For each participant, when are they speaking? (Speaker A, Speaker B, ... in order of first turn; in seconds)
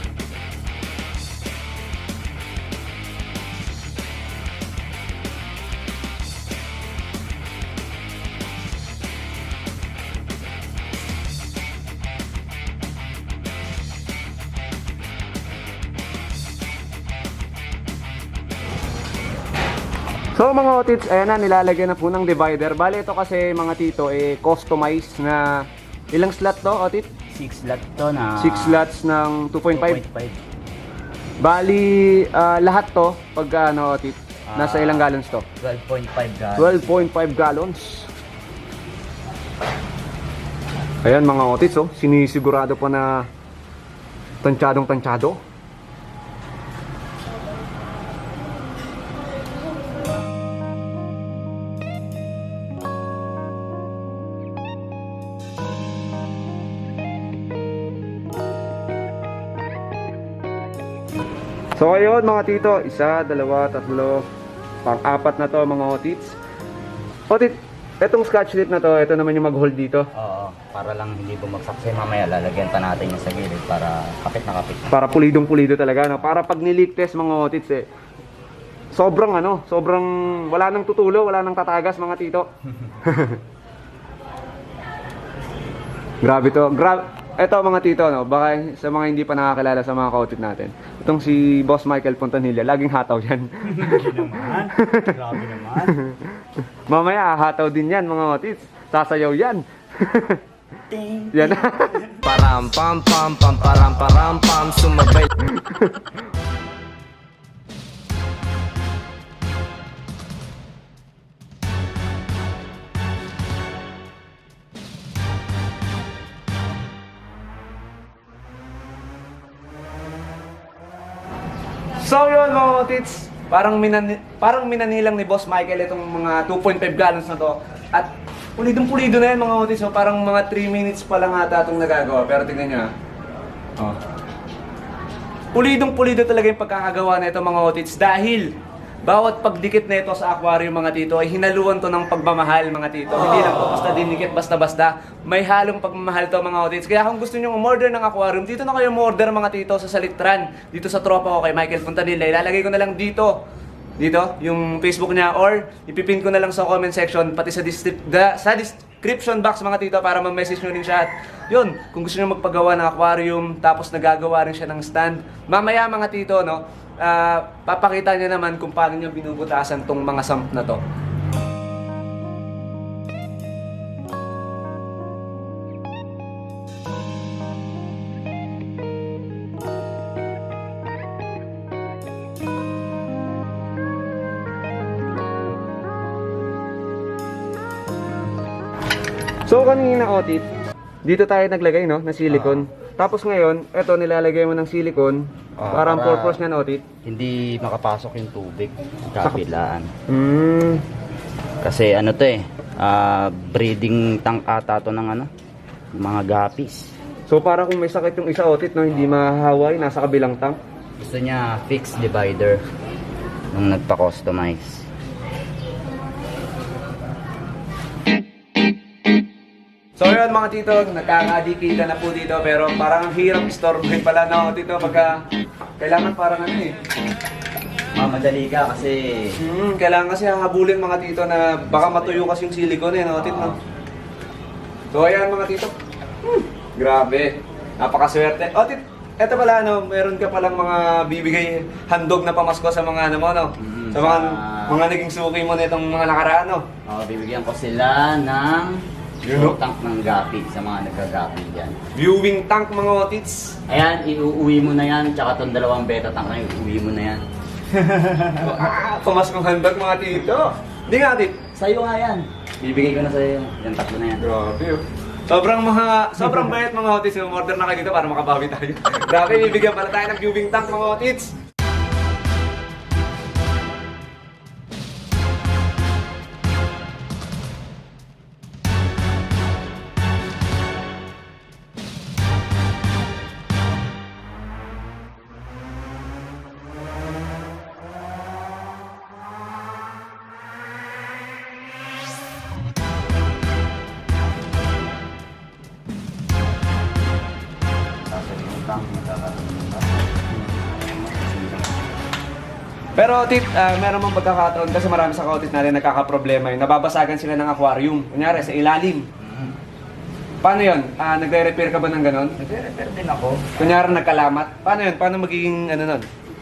Speaker A: 20.3-27.1, 28.4-30.0, 31.4-35.5, 36.6-38.1, 41.0-43.2, 44.4-45.4, 61.8-64.2, 64.8-66.3, 67.3-70.1, 74.9-77.8, 78.9-82.5, 83.0-83.4, 86.2-95.2, 95.8-96.3, 96.9-100.4, 101.3-103.3, 105.3-106.1, 122.0-132.9, 135.5-138.5, 139.0-153.3, 154.0-170.8, 189.4-190.4, 191.0-196.8, 200.1-200.8, 207.3-210.6, 219.9-225.2, 225.8-226.8, 229.4-233.5, 234.9-246.7, 249.2-249.6, 251.9-253.6, 258.4-261.4, 264.2-271.3, 303.0-309.1, 310.4-312.3, 313.6-316.1
Speaker B: 27.3-28.8, 29.7-30.4, 34.5-36.9, 70.1-74.9, 93.6-96.0, 100.9-102.3, 192.3-192.6, 195.6-196.4, 197.0-199.9, 201.6-205.3, 205.9-206.9, 211.0-212.6, 213.5-214.9, 227.9-229.4, 233.2-233.6, 243.6-244.8, 246.8-251.8, 253.7-258.5, 260.2-260.5, 261.5-264.2, 298.1-301.8, 309.2-309.6, 312.4-313.9
Speaker C: 102.5-105.3